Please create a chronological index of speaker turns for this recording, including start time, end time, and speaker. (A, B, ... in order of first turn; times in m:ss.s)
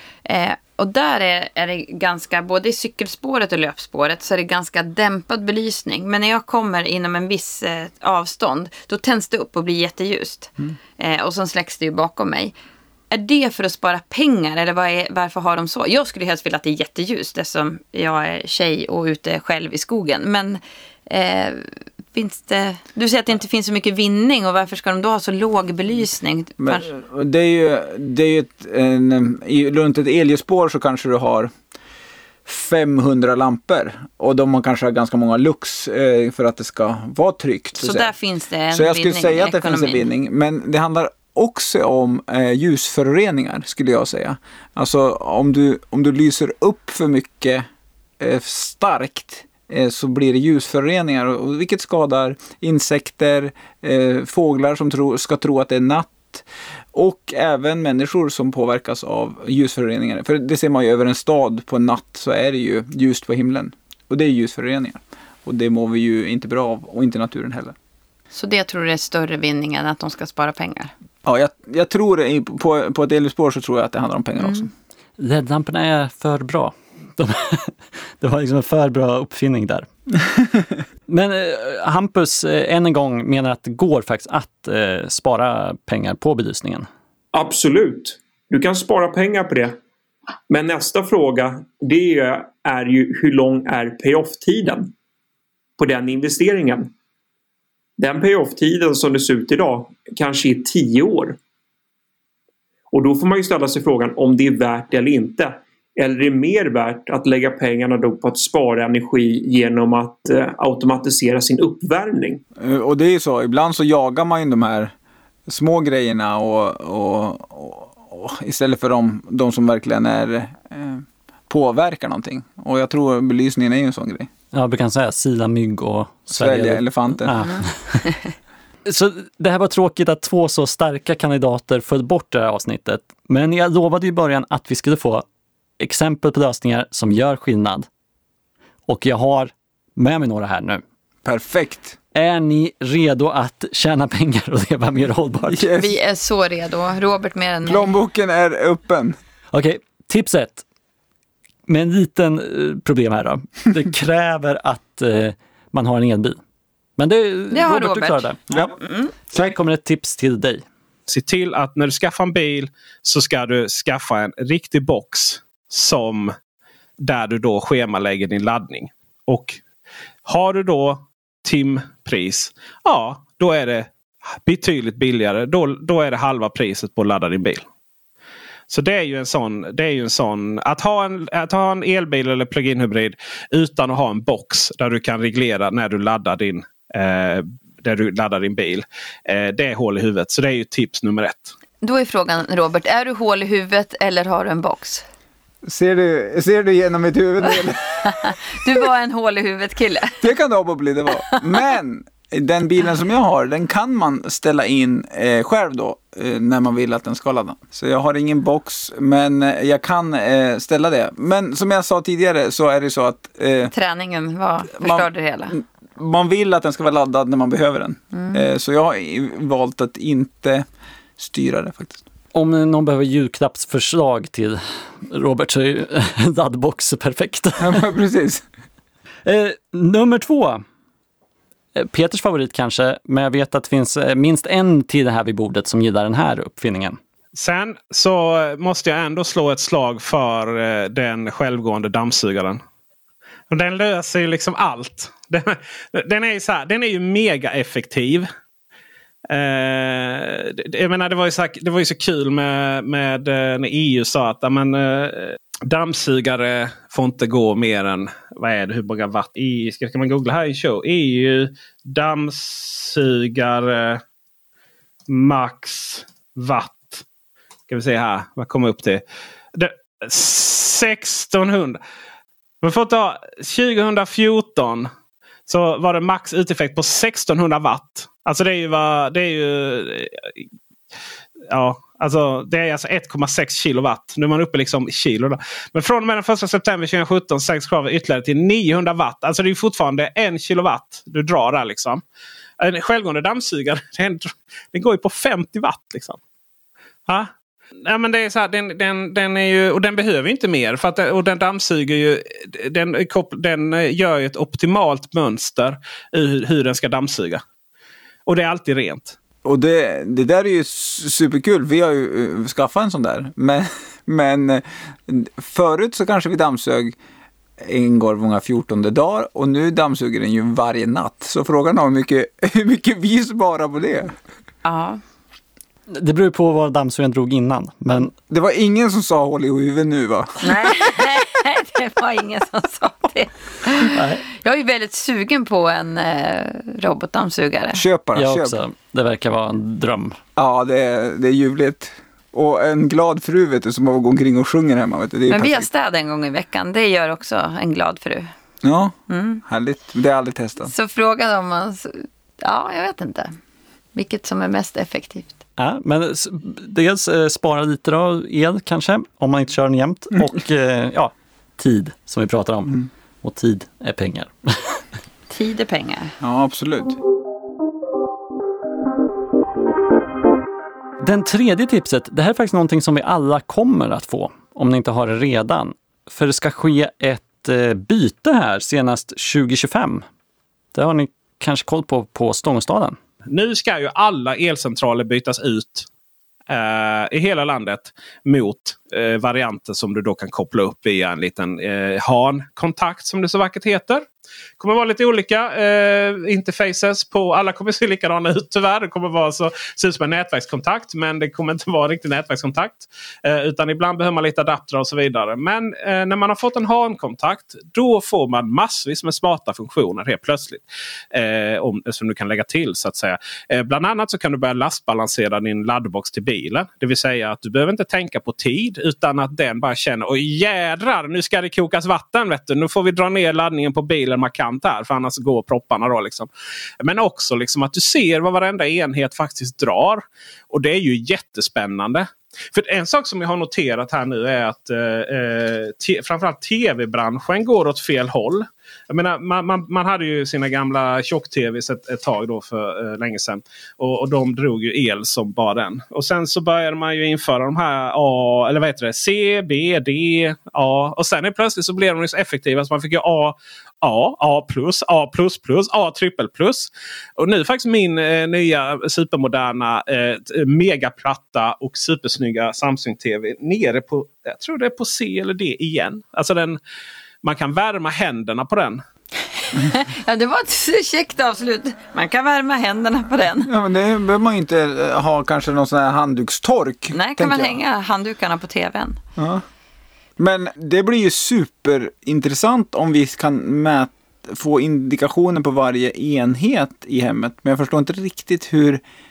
0:00.2-0:12.6 A
0:13.1-0:26.9 A
0:26.6-0:31.5 B
0:32.5-0:38.1 B
0:37.8-0:40.0 A
0:38.7-0:47.7 B
0:48.2-1:07.8 B
1:08.3-1:10.9 A
1:11.2-1:14.7 B
1:14.4-1:14.7 A
1:15.2-1:19.9 C
1:21.1-1:26.9 C
1:27.3-1:29.7 D
1:30.5-1:34.9 D
1:35.8-1:36.9 D
1:38.0-1:41.4 D
1:42.9-1:52.4 D
1:52.6-1:54.9 B
1:55.5-2:04.3 B
2:04.5-2:08.1 C
2:06.3-2:07.5 B
2:08.8-2:15.2 C
2:15.8-2:17.9 C
2:18.9-2:20.8 C
2:21.2-2:22.0 B
2:22.2-2:25.7 C
2:25.5-2:25.9 B
2:25.8-2:27.9 A
2:27.7-2:29.2 B
2:29.5-2:30.6 C
2:31.7-2:36.4 C
2:37.0-2:38.6 C
2:37.5-2:38.3 A
2:39.3-2:40.6 C
2:41.1-2:46.4 E
2:47.0-2:49.6 E
2:50.3-2:57.7 E
2:58.7-3:11.5 E
3:11.8-3:15.1 A
3:15.6-3:18.4 B
3:18.0-3:20.2 A
3:20.2-3:33.7 B
3:33.7-3:35.6 A
3:34.8-3:40.7 B
3:38.1-3:38.5 A
3:41.2-3:42.0 B
3:42.3-3:47.8 C
3:47.6-3:48.4 B
3:49.2-3:50.6 C
3:51.8-3:57.0 C
3:57.3-4:02.6 E
4:03.5-4:08.3 E
4:09.3-4:24.0 E
4:25.1-4:27.0 E
4:27.7-4:29.0 E
4:29.5-4:31.8 E
4:32.6-4:34.9 E
4:35.5-4:40.4 E
4:41.5-4:52.0 E
4:52.6-4:56.2 E
4:57.8-5:07.4 E
5:08.3-5:09.2 E
5:09.4-5:17.0 B
5:17.6-5:24.2 B
5:24.6-5:25.0 A
5:25.9-5:28.2 C
5:28.3-5:30.6 B
5:30.4-5:37.8 A
5:33.8-5:34.2 C
5:37.7-5:38.6 B
5:38.2-5:40.2 C
5:40.4-5:45.7 B
5:45.3-5:48.3 A
5:48.6-5:50.7 B
5:49.1-5:49.4 A
5:50.6-5:53.4 A
5:54.0-5:55.4 A
5:55.6-6:04.8 C
6:05.3-6:06.1 A
6:06.2-6:07.0 B
6:11.0-6:20.0 C
6:20.7-6:23.0 C
6:23.3-6:25.9 E
6:26.5-6:34.0 E
6:34.6-7:06.3 E
7:06.8-7:46.6 E
7:47.2-7:48.8 E
7:49.4-7:53.5 A
7:53.4-7:57.6 B
7:56.9-7:59.0 A
7:59.2-7:59.4 B
8:00.2-8:08.8 B